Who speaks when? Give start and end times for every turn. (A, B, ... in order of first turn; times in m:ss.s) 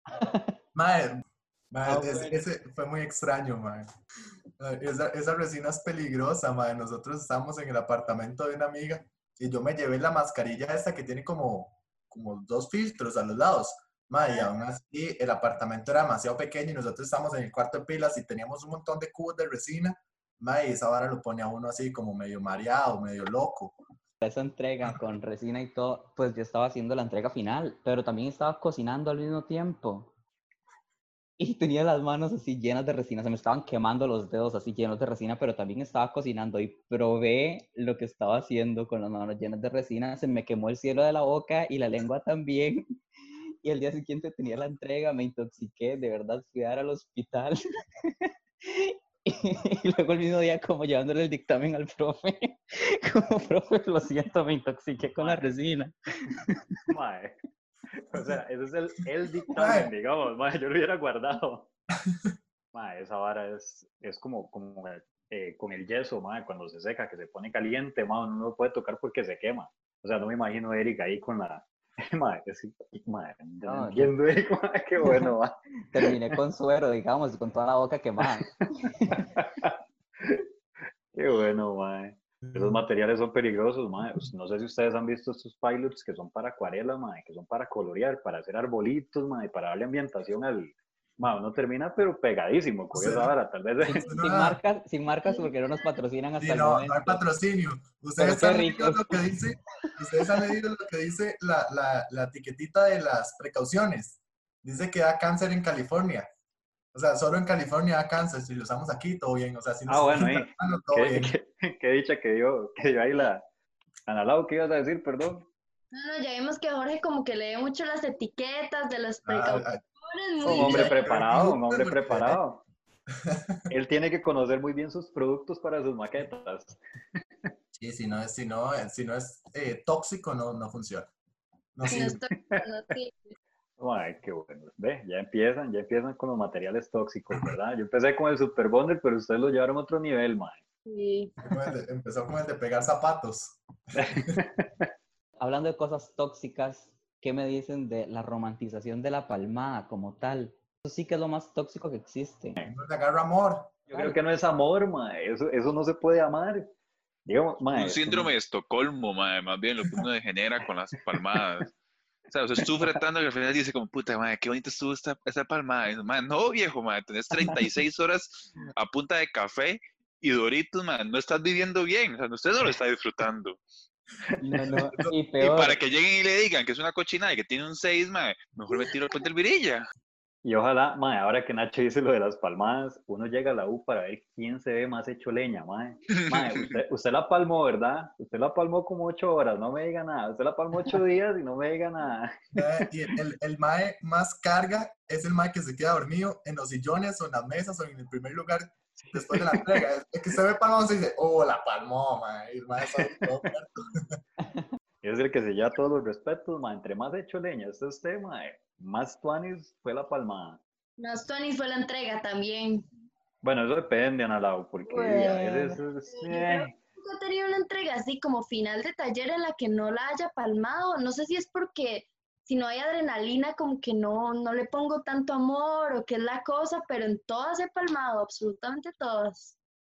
0:00.1-0:00.6 A
0:00.8-0:01.2 B
0:01.7-0:03.9 B
0:01.8-0:02.4 A
0:04.6-0:23.8 B
0:14.2-0:14.5 C
0:24.2-0:30.1 A
0:31.4-0:43.0 A
0:43.6-0:56.8 A
0:55.2-0:55.5 D
0:56.9-0:57.4 D
0:57.9-1:01.7 D
0:59.6-0:59.9 B
1:02.7-1:16.2 D
1:13.7-1:14.1 A
1:15.0-1:15.3 A
1:15.9-1:19.3 A
1:19.1-1:20.5 D
1:21.1-1:34.0 D
1:22.4-1:22.8 B
1:32.9-1:33.3 B
1:34.0-1:37.2 A
1:34.0-1:34.6 B
1:35.2-1:35.9 C
1:36.4-1:46.3 B
1:38.2-1:39.2 A
1:46.9-1:51.3 B
1:49.9-1:53.4 D
1:54.1-1:55.5 D
1:55.9-2:01.0 C
1:59.3-1:59.8 B
2:00.4-2:02.6 D
2:00.4-2:02.4 B
2:03.1-2:03.6 B
2:03.7-2:06.8 D
2:07.8-2:11.1 B
2:11.8-2:12.2 B
2:11.9-2:12.6 D
2:11.9-2:13.4 C
2:13.8-2:20.6 D
2:20.9-2:21.4 C
2:21.4-2:24.4 B
2:23.9-2:24.9 D
2:25.4-2:32.6 A
2:32.7-2:33.8 B
2:33.9-2:34.2 A
2:33.9-2:36.7 D
2:37.3-2:38.3 D
2:37.7-2:41.7 E
2:42.3-2:53.6 E
2:54.4-2:55.8 A
2:55.4-2:59.8 E
3:00.4-3:12.6 D
3:12.6-3:24.2 B
3:19.0-3:19.8 D
3:22.9-3:23.5 D
3:25.0-3:30.6 D
3:31.0-3:32.9 C
3:33.4-3:36.8 D
3:34.9-3:35.8 A
3:36.1-3:49.6 C